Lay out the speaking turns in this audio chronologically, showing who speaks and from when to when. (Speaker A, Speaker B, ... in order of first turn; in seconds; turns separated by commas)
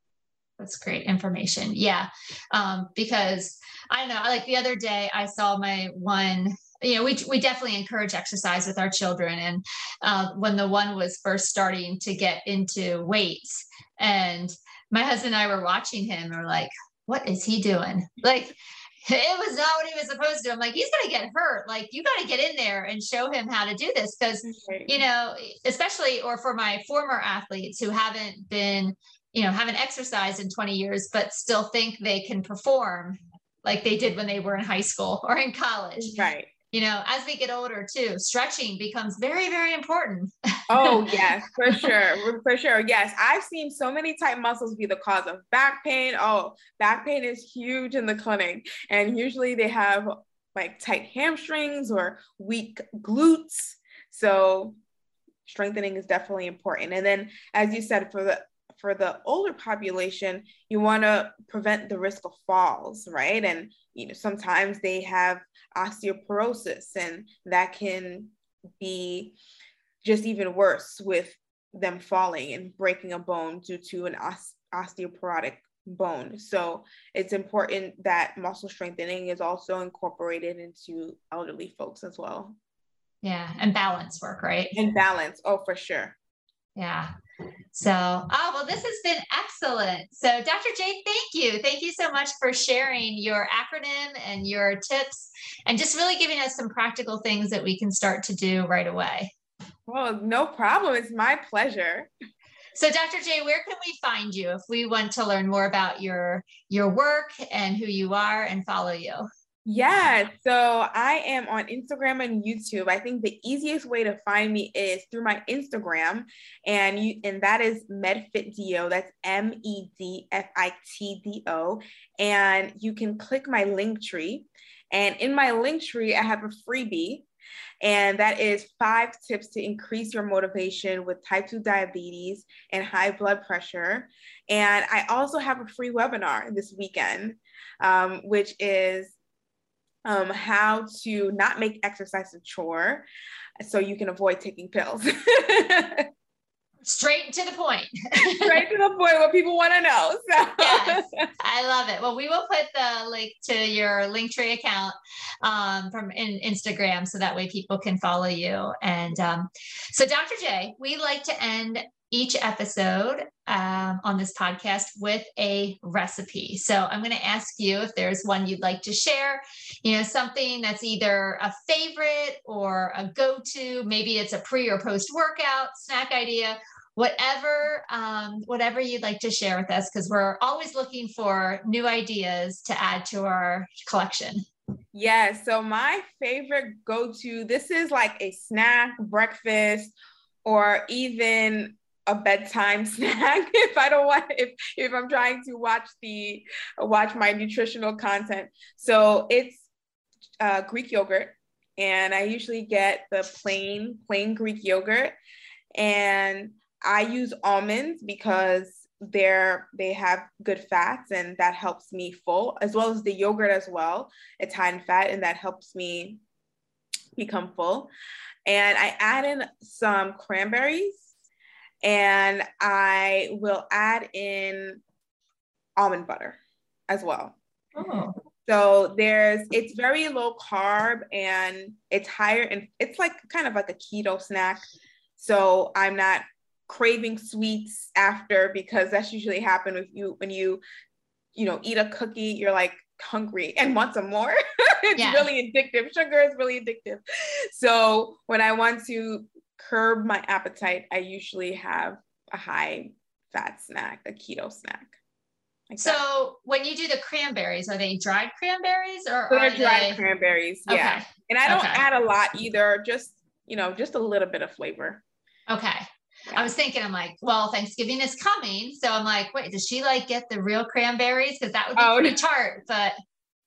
Speaker A: 0.6-40.3, Speaker B: 24.4-25.0, Speaker B: 36.0-36.5, Speaker B: 40.7-54.8, Speaker B: 55.5-69.3, Speaker B: 70.0-82.5, Speaker A: 83.2-84.8, Speaker B: 84.7-86.1, Speaker A: 86.8-87.1, Speaker A: 87.7-99.3, Speaker B: 99.9-102.1, Speaker A: 102.7-109.2, Speaker B: 109.7-127.2, Speaker B: 127.8-139.1, Speaker B: 140.1-143.0, Speaker B: 143.6-146.1, Speaker A: 146.8-148.6, Speaker B: 148.4-151.2, Speaker A: 150.6-184.4, Speaker B: 184.9-199.6, Speaker B: 200.4-205.1, Speaker B: 205.8-216.2, Speaker B: 217.2-217.9, Speaker B: 218.4-221.0, Speaker B: 221.8-224.8, Speaker B: 225.8-226.4, Speaker B: 226.9-227.4, Speaker A: 227.7-228.1, Speaker B: 228.4-234.6, Speaker B: 235.2-240.6, Speaker B: 241.3-254.9, Speaker A: 245.0-245.3, Speaker B: 255.7-256.0, Speaker A: 255.8-260.0, Speaker B: 259.3-265.0, Speaker A: 260.7-261.9, Speaker A: 265.5-272.9, Speaker B: 271.8-272.2